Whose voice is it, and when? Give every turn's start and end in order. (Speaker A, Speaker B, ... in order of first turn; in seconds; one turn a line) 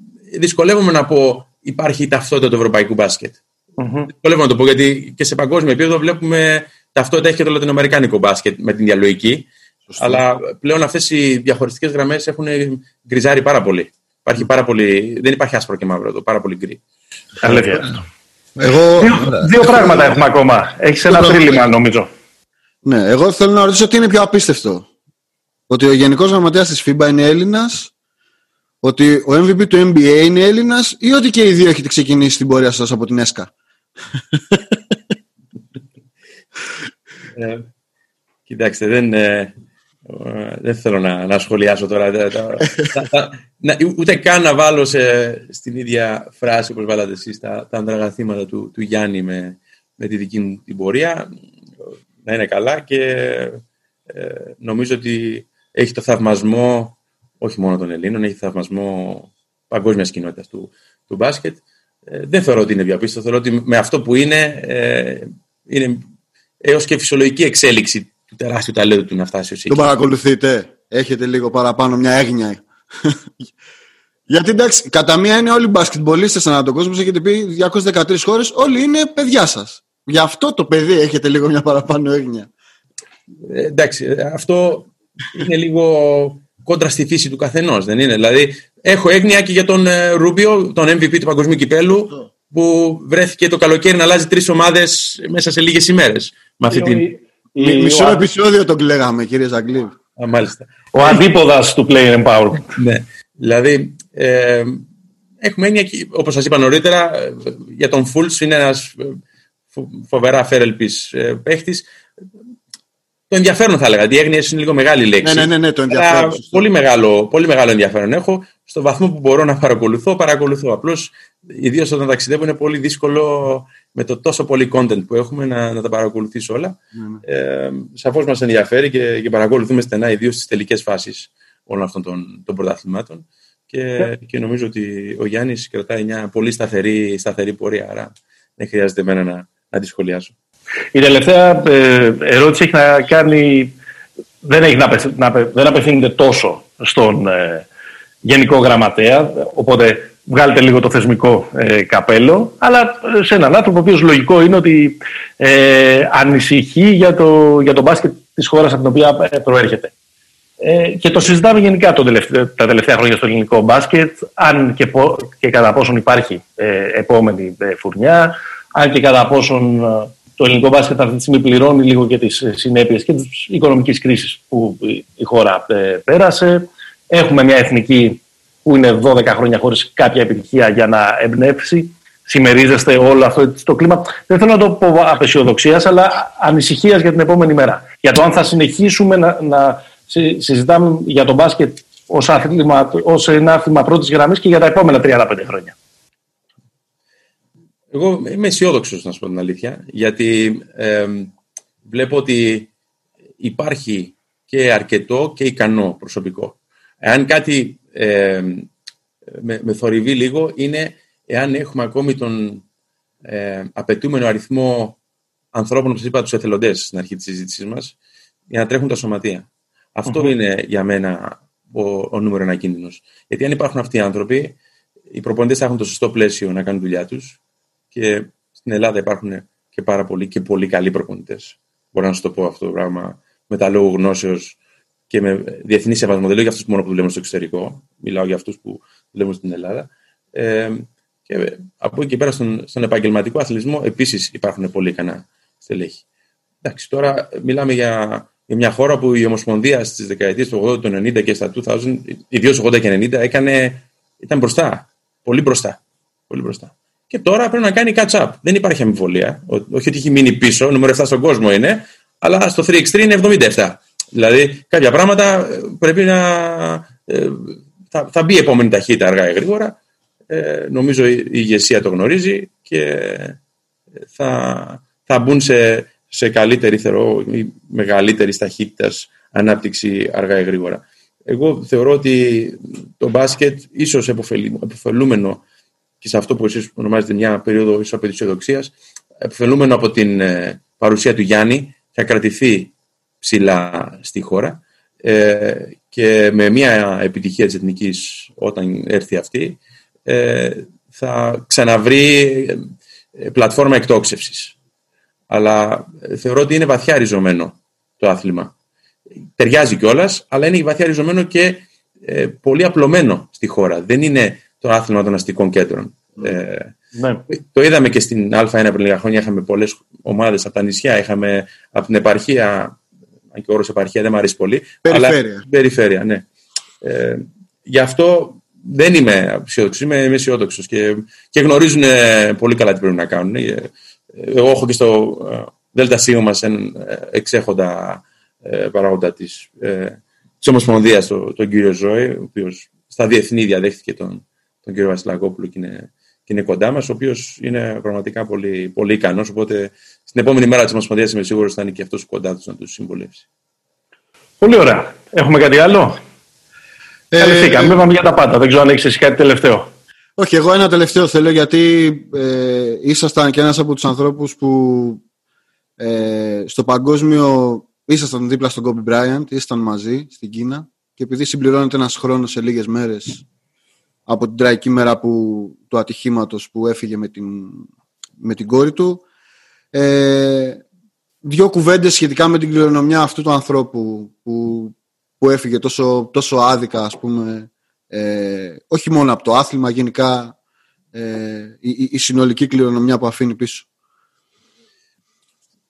Speaker A: 0.3-3.4
Speaker B: 3.8-4.1
Speaker A: 4.1-16.8
Speaker C: 9.9-10.2
Speaker B: 17.4-18.0
Speaker C: 17.5-17.8
Speaker C: 18.6-20.1
Speaker B: 18.9-22.1
Speaker C: 21.1-21.6
Speaker C: 22.8-24.9
Speaker C: 25.7-27.9
Speaker C: 28.8-33.5
Speaker A: 37.3-37.6
Speaker A: 38.5-39.5
Speaker A: 40.0-51.3
Speaker A: 52.2-66.0
Speaker A: 66.6-69.9
Speaker C: 69.7-73.3
Speaker C: 74.3-82.5
Speaker A: 83.4-97.1
Speaker B: 96.7-98.3
Speaker C: 97.6-99.9
Speaker A: 100.2-101.2
Speaker B: 100.9-102.7
Speaker A: 102.7-104.8
Speaker A: 105.4-109.2
Speaker A: 109.7-111.9
Speaker A: 113.3-140.3
Speaker C: 115.2-116.6
Speaker C: 127.0-127.2
Speaker B: 140.9-143.7
Speaker B: 144.4-147.7
Speaker B: 148.2-159.9
Speaker B: 160.6-195.8
Speaker A: 197.9-201.3
Speaker A: 201.8-202.7
Speaker A: 203.4-208.7
Speaker A: 209.3-212.6
Speaker A: 213.2-215.0
Speaker A: 215.5-217.9
Speaker A: 218.5-224.6
Speaker A: 225.1-227.4
Speaker A: 227.9-234.6
Speaker A: 235.1-246.0
Speaker A: 246.6-269.8
Speaker A: 270.3-273.4
Speaker A: 274.1-285.4
Speaker A: 286.0-304.5
Speaker A: 305.3-308.5
Speaker A: 309.4-316.7
Speaker B: 316.9-317.2
Speaker A: 317.3-322.8
Speaker A: 323.3-326.2
Speaker C: 324.8-325.4
Speaker A: 326.8-353.2
Speaker B: 354.4-356.0
Speaker C: 357.1-357.8
Speaker B: 357.2-359.7
Speaker C: 360.2-365.0
Speaker C: 365.8-373.2
Speaker C: 374.1-377.7
Speaker C: 378.2-379.0
Speaker C: 379.7-380.6
Speaker C: 381.2-390.3
Speaker C: 390.9-393.7